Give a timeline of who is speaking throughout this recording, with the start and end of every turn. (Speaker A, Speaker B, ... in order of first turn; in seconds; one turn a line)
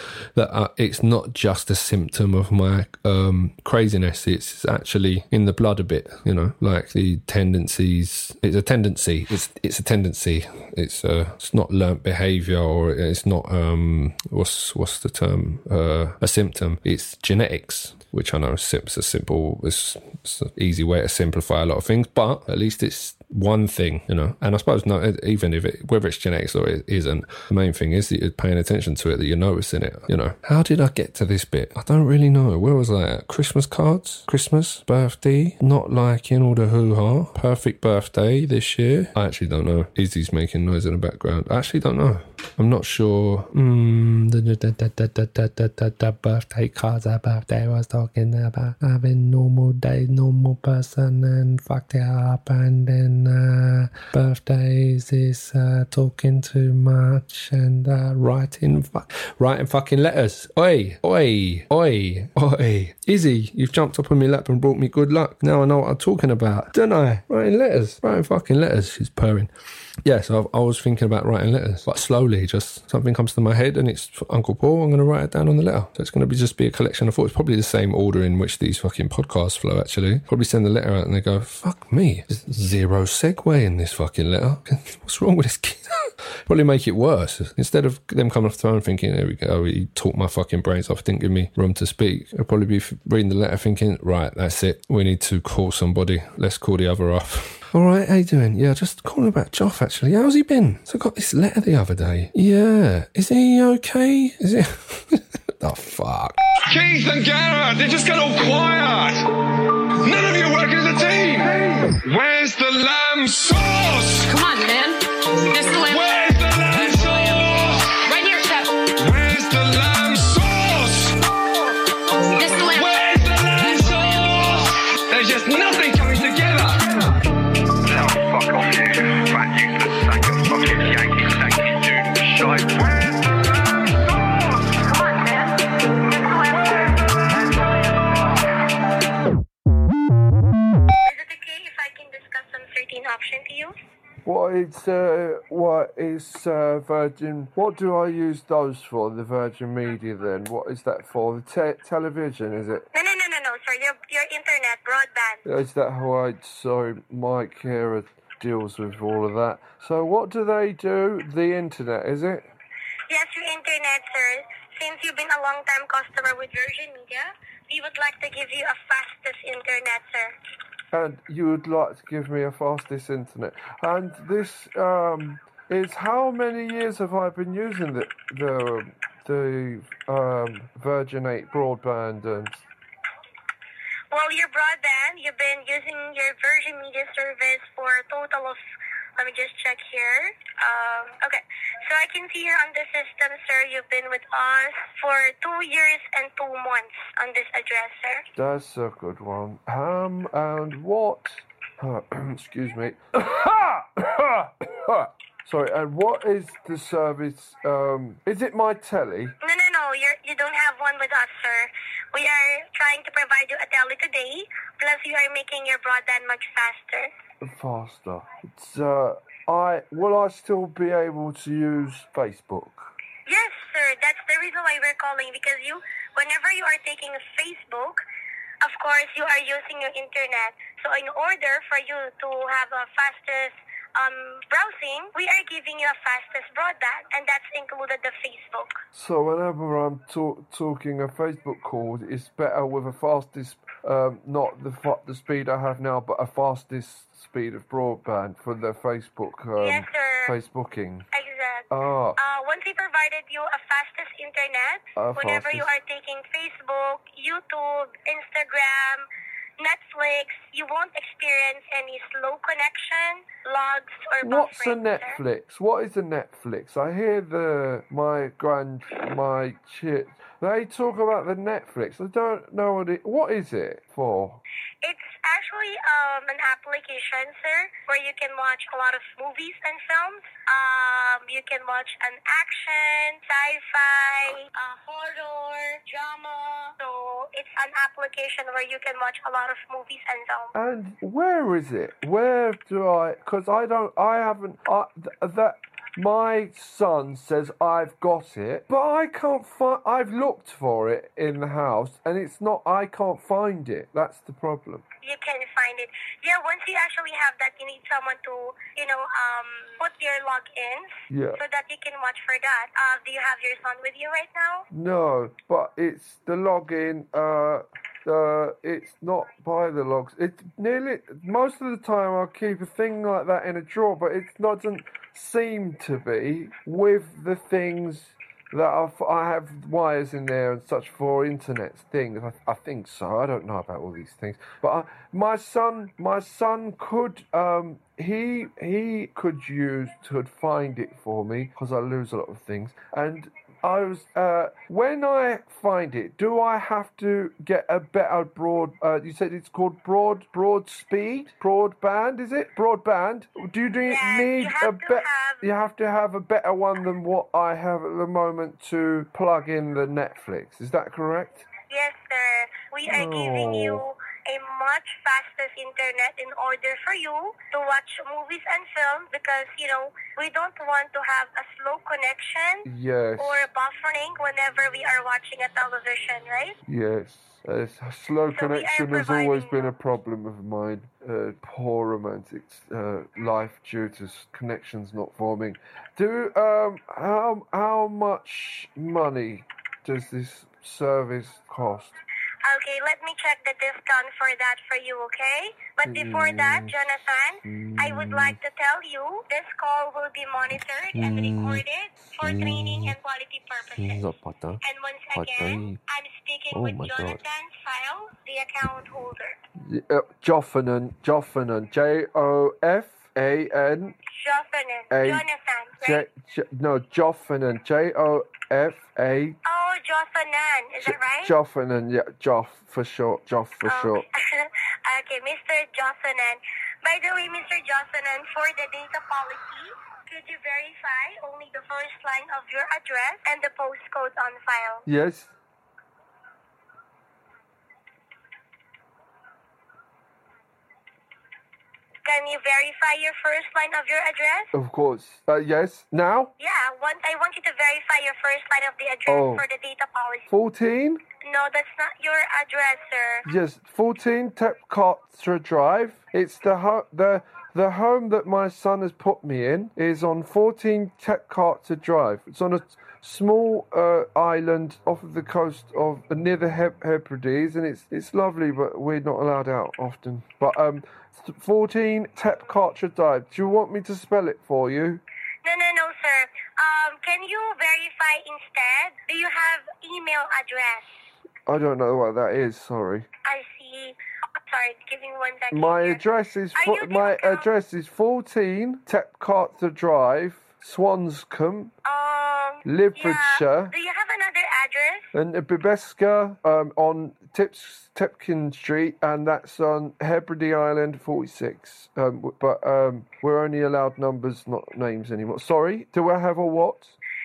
Speaker A: 0.3-69.5
Speaker A: 70.0-106.4
Speaker B: 106.6-109.3
Speaker B: 110.0-114.3
Speaker C: 114.2-116.1
Speaker B: 115.8-118.1
Speaker C: 116.8-117.5
Speaker C: 118.0-118.8
Speaker B: 119.0-121.2
Speaker C: 122.3-123.1
Speaker B: 122.7-127.1
Speaker C: 123.7-124.2
Speaker B: 127.8-133.3
Speaker C: 134.9-137.7
Speaker D: 141.0-143.7
Speaker E: 144.2-152.8
Speaker D: 152.9-155.4
Speaker E: 155.4-162.4
Speaker D: 163.1-170.3
Speaker E: 170.9-182.6
Speaker D: 184.1-188.6
Speaker D: 189.2-198.2
Speaker E: 198.3-209.3
Speaker D: 209.4-217.1
Speaker E: 217.4-222.9
Speaker D: 223.2-228.0
Speaker D: 228.6-238.8
Speaker E: 238.9-251.1
Speaker D: 249.6-250.4
Speaker D: 251.1-251.7
Speaker E: 251.7-252.2
Speaker D: 252.2-259.1
Speaker E: 255.0-255.7
Speaker D: 259.6-265.2
Speaker E: 264.2-274.4
Speaker D: 274.8-290.5
Speaker E: 290.5-304.8
Speaker D: 305.0-314.6
Speaker E: 311.1-311.4
Speaker E: 314.7-361.4
Speaker D: 353.8-355.4
Speaker D: 361.7-376.6
Speaker E: 362.9-363.8
Speaker E: 372.6-373.4
Speaker E: 376.7-391.9
Speaker D: 378.3-379.7
Speaker D: 392.4-404.0
Speaker E: 395.8-396.7
Speaker E: 397.4-398.4
Speaker E: 400.9-401.6
Speaker E: 402.2-402.9
Speaker E: 403.6-404.6
Speaker D: 404.6-409.4
Speaker E: 405.1-405.8
Speaker E: 406.5-407.2
Speaker E: 409.6-414.0
Speaker D: 414.1-416.0
Speaker E: 414.9-415.2
Speaker E: 415.8-419.4
Speaker D: 419.4-421.3
Speaker E: 420.8-424.0
Speaker D: 423.6-434.8
Speaker E: 434.9-435.3
Speaker D: 442.0-444.5
Speaker E: 444.5-446.3
Speaker D: 446.4-450.3
Speaker E: 449.1-449.4
Speaker E: 450.3-451.0
Speaker D: 451.2-453.2
Speaker E: 453.2-475.0
Speaker D: 475.4-480.9
Speaker E: 481.5-483.1
Speaker D: 483.2-486.0
Speaker E: 485.5-491.7
Speaker D: 486.5-487.4
Speaker D: 491.8-495.1
Speaker E: 492.6-493.7
Speaker E: 495.1-506.9